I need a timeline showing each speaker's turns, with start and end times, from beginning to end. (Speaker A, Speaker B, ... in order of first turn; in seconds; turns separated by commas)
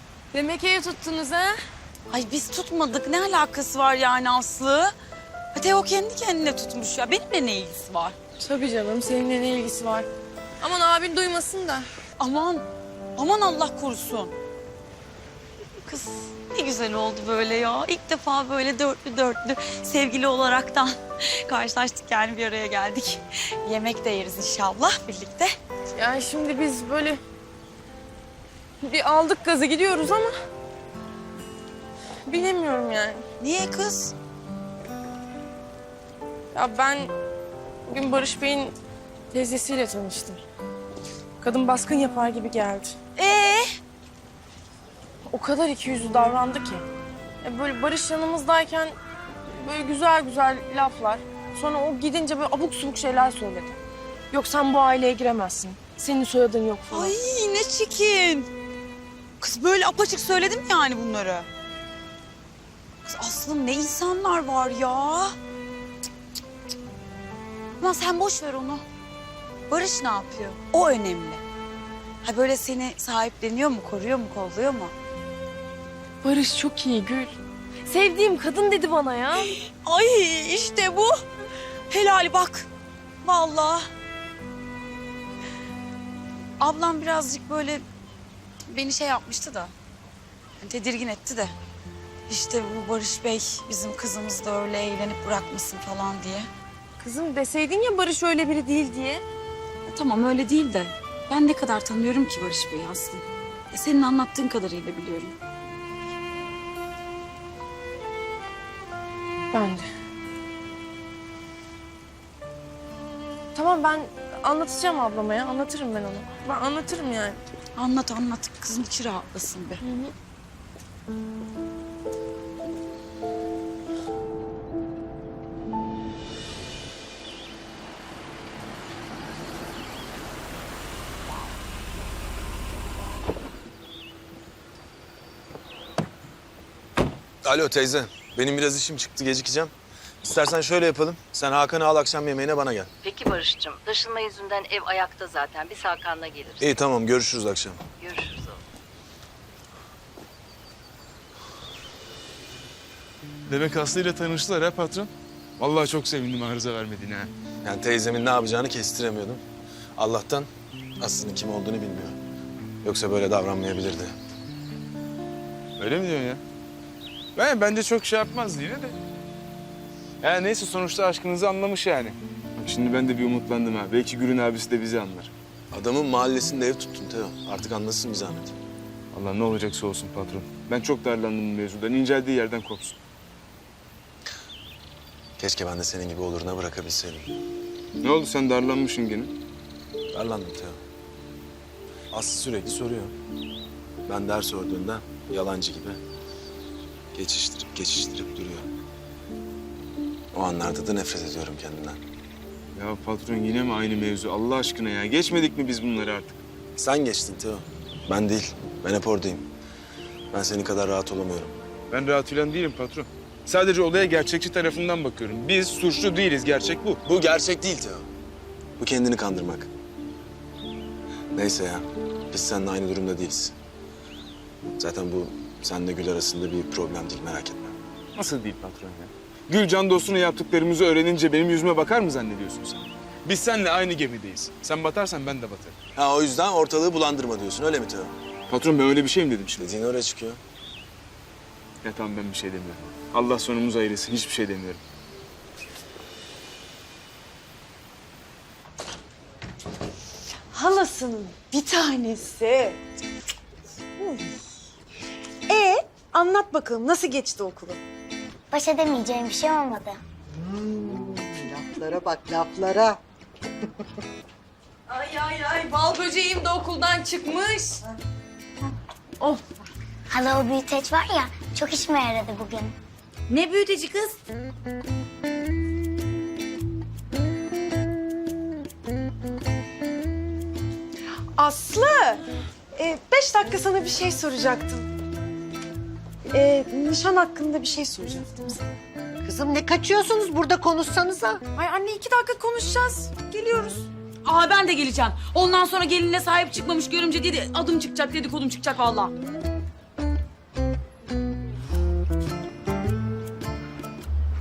Speaker A: 0.3-1.6, Speaker B: 2.1-4.9, Speaker B: 5.5-8.2, Speaker A: 8.4-10.1, Speaker A: 10.6-11.9, Speaker B: 12.2-14.3, Speaker B: 15.8-25.5, Speaker A: 26.0-27.2, Speaker A: 28.8-30.3, Speaker A: 32.3-33.2, Speaker B: 33.4-34.1, Speaker A: 36.5-37.1, Speaker A: 37.9-38.8, Speaker A: 39.3-40.4, Speaker A: 41.4-43.0, Speaker B: 43.2-43.7, Speaker A: 45.3-46.9, Speaker A: 47.4-49.0, Speaker A: 49.5-53.8, Speaker A: 54.3-57.1, Speaker B: 56.9-58.5, Speaker B: 59.4-61.5, Speaker B: 63.1-65.3, Speaker B: 67.8-68.8, Speaker B: 69.7-71.4, Speaker B: 72.2-74.9, Speaker A: 76.2-79.5, Speaker B: 79.4-81.1, Speaker B: 81.9-82.7, Speaker B: 83.2-83.9, Speaker B: 86.6-87.8, Speaker B: 88.7-89.7, Speaker B: 90.6-91.5, Speaker B: 92.3-96.5, Speaker A: 97.0-99.2, Speaker B: 99.9-105.3, Speaker A: 109.5-109.9, Speaker A: 113.5-117.4, Speaker B: 117.8-119.8, Speaker A: 119.8-120.1, Speaker C: 137.4-142.9, Speaker D: 143.0-146.7, Speaker C: 146.6-147.8, Speaker D: 148.0-148.6, Speaker E: 153.5-157.3, Speaker C: 157.6-159.4, Speaker C: 160.0-162.2, Speaker C: 162.8-164.2, Speaker E: 165.8-166.4, Speaker E: 167.3-168.9, Speaker E: 170.2-175.3, Speaker C: 175.7-178.5, Speaker E: 179.1-182.9, Speaker C: 185.4-187.3, Speaker E: 188.0-189.3, Speaker C: 190.1-190.8, Speaker C: 192.1-193.1, Speaker C: 194.1-196.0, Speaker C: 197.1-198.7, Speaker C: 200.3-202.0, Speaker E: 202.8-206.4, Speaker C: 206.8-209.5, Speaker C: 210.3-211.6, Speaker E: 211.9-217.0, Speaker C: 217.0-218.1, Speaker C: 218.8-219.7, Speaker C: 221.3-223.5, Speaker C: 224.8-227.8, Speaker E: 228.2-235.8, Speaker C: 235.9-238.1, Speaker E: 238.5-239.6, Speaker C: 239.6-240.4, Speaker E: 241.8-244.8, Speaker F: 250.3-252.8, Speaker F: 255.5-257.8, Speaker G: 258.5-260.0, Speaker H: 260.6-263.0, Speaker A: 264.9-267.8, Speaker G: 270.1-272.8, Speaker B: 273.3-274.2, Speaker F: 281.4-282.2, Speaker F: 282.8-284.9, Speaker F: 286.3-288.6, Speaker H: 289.2-291.4, Speaker F: 291.6-293.9, Speaker B: 294.2-299.1